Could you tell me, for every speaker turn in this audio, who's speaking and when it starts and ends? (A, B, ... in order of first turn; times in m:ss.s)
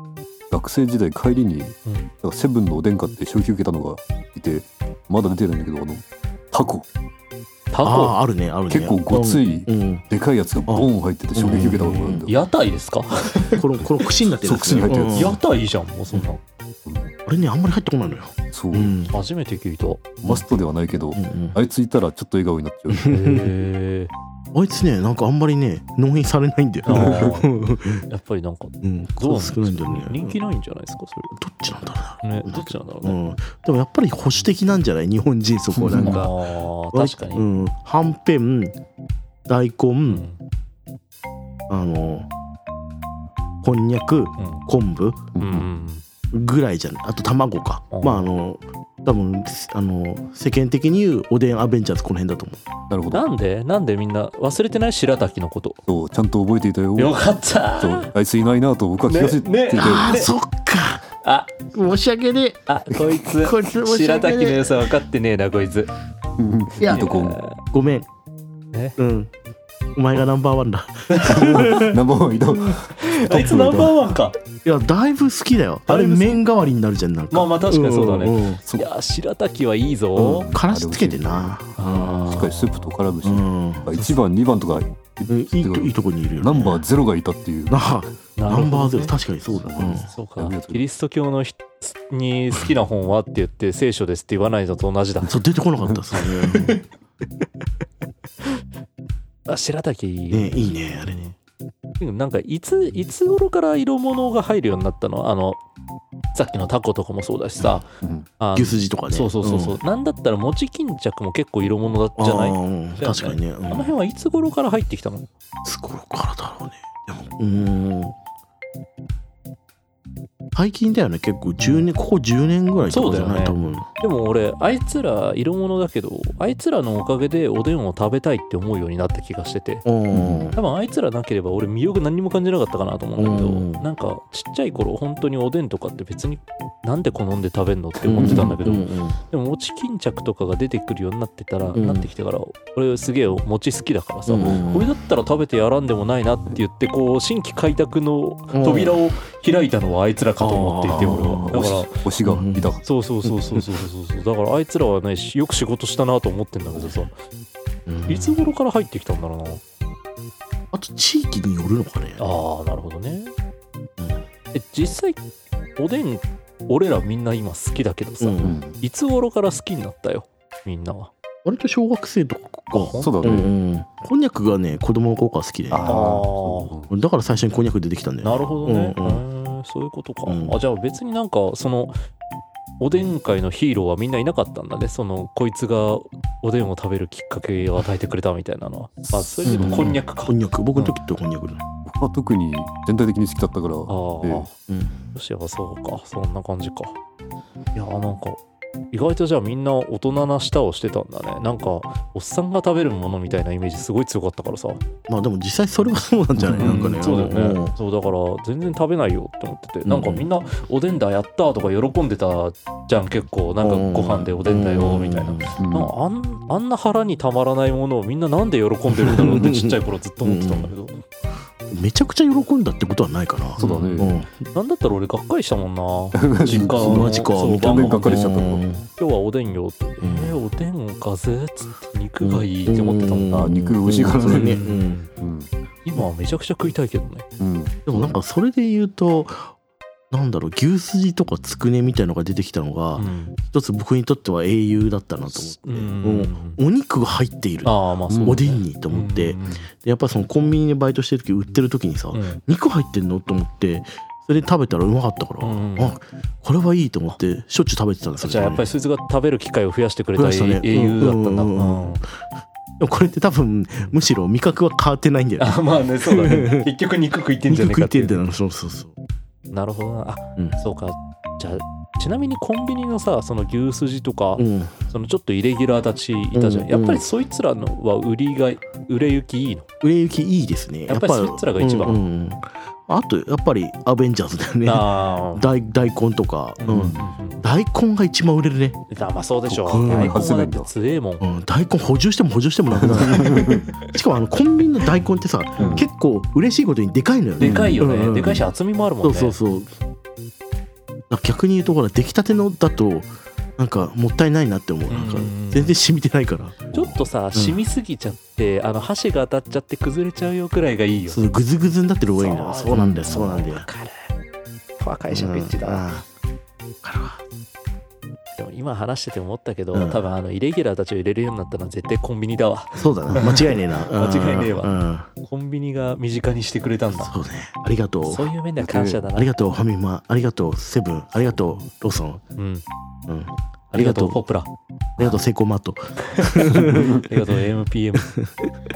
0:00.5-0:06.9 A
0:07.7-0:08.2 B
0:07.8-0:10.0 C
0:08.7-0:12.3 A
0:10.7-0:12.2 C
0:12.0-0:13.6 B
0:13.5-0:15.4 C
0:14.3-0:15.4 A
0:15.1-0:16.4 B
0:17.2-0:19.1 C
0:18.5-0:18.9 A
0:19.1-0:20.2 B
0:20.2-0:23.1 A
0:21.1-0:21.6 C
0:22.9-0:23.5 C
0:23.0-0:24.1 B
0:24.5-0:28.0 C
0:26.8-0:27.6 B
0:26.9-0:27.3 A
0:28.1-0:31.3 B
0:28.8-0:30.4 C
0:31.3-0:36.3 C
0:32.2-0:33.2 B
0:35.8-0:36.2 A
0:35.9-0:37.4 B
0:36.9-0:38.8 C
0:39.5-0:40.2 C
0:40.1-0:40.4 B
0:41.7-0:42.3 C
0:43.6-0:45.2 C
0:44.4-0:44.6 B
0:45.3-0:45.7 A
0:45.4-0:46.0 B
0:46.3-0:52.6 C
0:47.9-0:48.3 B
0:52.9-0:53.3 A
0:53.1-0:55.8 B
0:55.9-0:57.2 A
0:57.0-0:58.1 B
0:57.8-1:00.2 A
0:59.1-1:00.3 B
0:59.8-1:01.0 C
1:01.2-1:01.6 B
1:01.7-1:02.6 C
1:02.7-1:05.9 B
1:03.3-1:04.9 C
1:06.4-1:07.4 A
1:06.8-1:08.1 C
1:06.8-1:07.6 B
1:09.0-1:09.3 C
1:09.9-1:12.0 C
1:11.1-1:11.9 B
1:11.2-1:14.0 A
1:12.9-1:14.4 B
1:14.6-1:18.6 C
1:15.9-1:16.4 B
1:17.3-1:20.5 B
1:18.6-1:18.9 A
1:20.2-1:22.5 C
1:20.4-1:21.6 A
1:21.8-1:22.9 B
1:22.2-1:27.8 A
1:23.2-1:24.0 C
1:25.3-1:26.8 C
1:27.7-1:30.1 C
1:28.4-1:29.1 B
1:29.5-1:30.8 A
1:30.1-1:35.4 B
1:35.3-1:36.8 C
1:36.1-1:36.8 B
1:39.4-1:41.4 B
1:40.3-1:41.2 C
1:42.0-1:45.6 B
1:46.3-1:47.9 B
1:48.0-1:48.3 A
1:48.4-1:55.3 B
1:48.5-1:49.8 C
1:52.2-1:53.9 C
1:55.6-1:58.2 C
2:00.5-2:03.9 C
2:02.9-2:09.9 B
2:09.9-2:10.6 C
2:10.1-2:10.5 A
2:10.5-2:31.9 B
2:13.2-2:13.8 C
2:18.0-2:19.2 C
2:18.1-2:18.6 A
2:21.7-2:22.1 C
2:24.3-2:24.9 C
2:28.5-2:29.0 C
2:30.4-2:32.7 C
2:30.9-2:32.8 A
2:32.8-2:37.1 B
2:37.9-2:38.5 C
2:38.1-2:39.6 B
2:40.7-2:42.2 C
2:42.2-2:43.3 B
2:44.5-2:45.2 B
2:45.8-2:51.1 B
2:48.2-2:48.6 C
2:48.4-2:48.8 A
2:51.4-2:56.2 C
2:52.8-2:53.5 B
2:53.0-2:53.5 A
2:55.7-2:56.9 A
2:55.9-2:56.7 B
2:56.9-2:59.2 C
2:58.2-3:02.0 B
3:00.2-3:00.6 C
3:02.8-3:10.9 B
3:09.0-3:10.0 A
3:09.4-3:11.6 C
3:11.9-3:14.5 A
3:13.9-3:14.5 B
3:14.7-3:15.0 C
3:15.1-3:17.0 B
3:17.8-3:18.4 B
3:18.9-3:24.8 B
3:25.1-3:27.7 C
3:26.6-3:41.0 B
3:29.8-3:30.2 C
3:33.6-3:35.5 C
3:35.6-3:35.9 A
3:38.9-3:40.7 C
3:41.7-3:44.3 C
3:43.6-3:48.2 B
3:43.6-3:44.1 A
3:46.1-3:48.6 A
3:46.7-3:48.9 C
3:49.0-3:53.4 B
3:50.0-3:50.4 C
3:52.2-3:55.0 C
3:53.3-3:54.6 A
3:54.3-3:55.1 B
3:55.2-3:55.5 A
3:55.8-3:57.3 B
3:57.4-3:58.2 A
3:57.9-3:59.5 C
4:00.1-4:18.6 C
4:03.0-4:03.4 B
4:05.3-4:06.6 B
4:07.6-4:09.7 B
4:08.1-4:08.4 A
4:12.1-4:12.4 B
4:15.4-4:16.0 B
4:18.2-4:22.0 B
4:20.1-4:22.0 C
4:22.8-4:26.6 C
4:25.4-4:28.2 B
4:27.5-4:28.9 C
4:29.5-4:39.7 B
4:34.4-4:34.8 C
4:36.3-4:37.0 C
4:39.8-4:48.8 C
4:40.9-4:42.0 B
4:44.6-4:45.5 B
4:46.6-4:47.4 B
4:46.7-4:47.0 A
4:48.9-4:51.2 B
4:49.5-4:50.7 A
4:49.7-4:50.2 C
4:51.2-4:58.4 C
4:52.7-4:53.6 A
4:53.1-4:53.9 B
4:55.6-4:55.9 B
4:55.6-4:55.9 A
4:57.4-4:59.4 B
4:57.4-4:57.8 A
4:59.0-4:59.7 C
5:01.1-5:06.7 C
5:04.9-5:05.8 B
5:06.7-5:07.0 A
5:06.7-5:11.3 B
5:07.3-5:07.6 C
5:11.1-5:13.7 C
5:12.1-5:14.1 B
5:12.8-5:13.0 A
5:14.8-5:15.9 B
5:15.1-5:16.1 C
5:16.8-5:17.2 C
5:18.4-5:27.1 B
5:19.7-5:20.0 C
5:22.8-5:25.1 C
5:26.9-5:28.3 C
5:28.0-5:29.3 B
5:28.6-5:29.0 A
5:29.1-5:32.2 C
5:32.4-5:32.6 B
5:33.1-5:34.2 C
5:33.7-5:34.5 B
5:35.0-5:37.1 C
5:36.1-5:38.1 B
5:36.7-5:37.0 A
5:38.1-5:38.5 C